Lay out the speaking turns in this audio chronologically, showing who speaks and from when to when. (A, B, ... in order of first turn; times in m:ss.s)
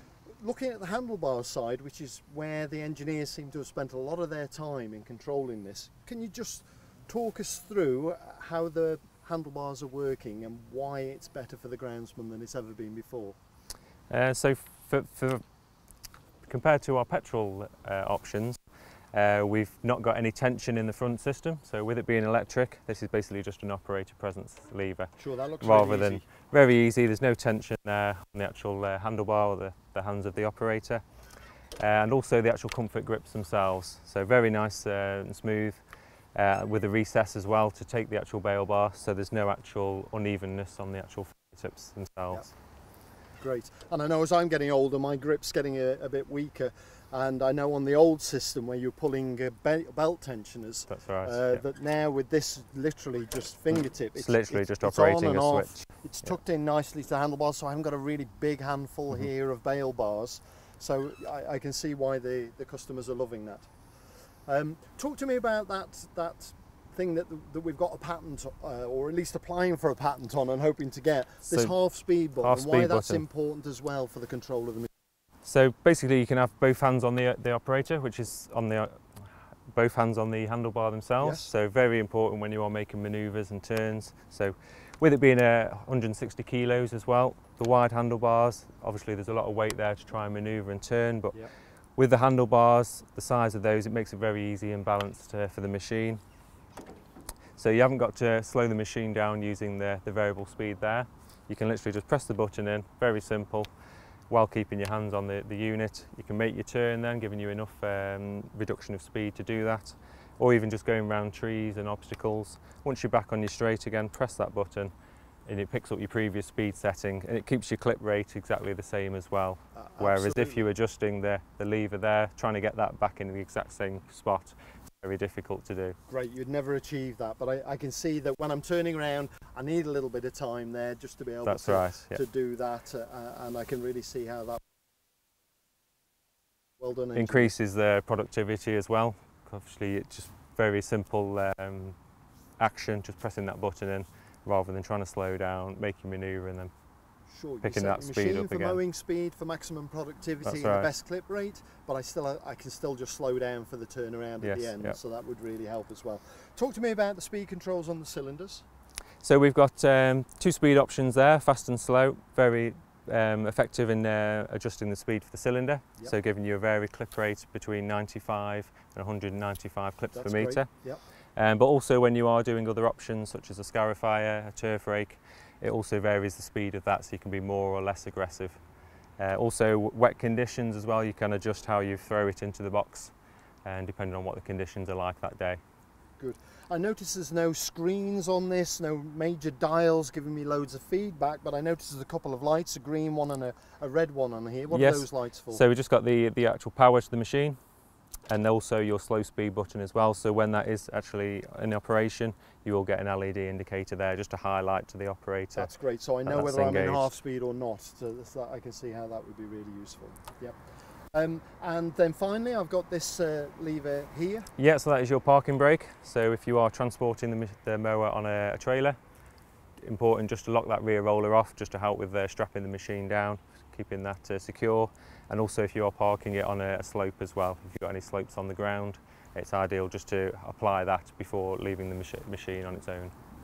0:00.4-0:13.4 A
0:14.1-0:15.4 B
0:16.5-0:18.6 B
0:19.1-0:31.0 B
0:25.2-0:26.2 A
0:31.8-0:35.8 B
0:36.4-0:42.4 B
0:43.4-1:14.9 A
0:50.9-0:51.6 B
0:54.2-0:55.8 B
1:11.5-1:11.7 B
1:12.4-1:13.2 B
1:15.4-1:31.4 B
1:21.2-1:21.5 A
1:32.0-1:36.2 B
1:37.6-1:43.7 B
1:44.3-1:54.9 B
1:55.5-2:06.0 B
1:59.8-2:00.7 A
2:06.1-2:14.6 A
2:11.4-2:12.2 B
2:16.8-2:17.5 A
2:17.2-2:22.0 B
2:22.6-2:26.7 B
2:27.3-2:38.6 A
2:27.6-2:28.8 B
2:30.4-2:30.9 B
2:34.4-2:35.0 B
2:39.2-2:50.7 B
2:50.1-2:51.0 A
2:51.4-2:58.6 B
2:59.2-3:03.1 B
3:03.6-3:05.6 B
3:06.2-3:15.6 A
3:14.7-3:17.6 B
3:18.3-3:25.7 B
3:25.6-3:30.6 A
3:26.2-3:27.1 B
3:31.1-3:34.5 A
3:34.6-3:39.0 B
3:39.8-3:53.1 B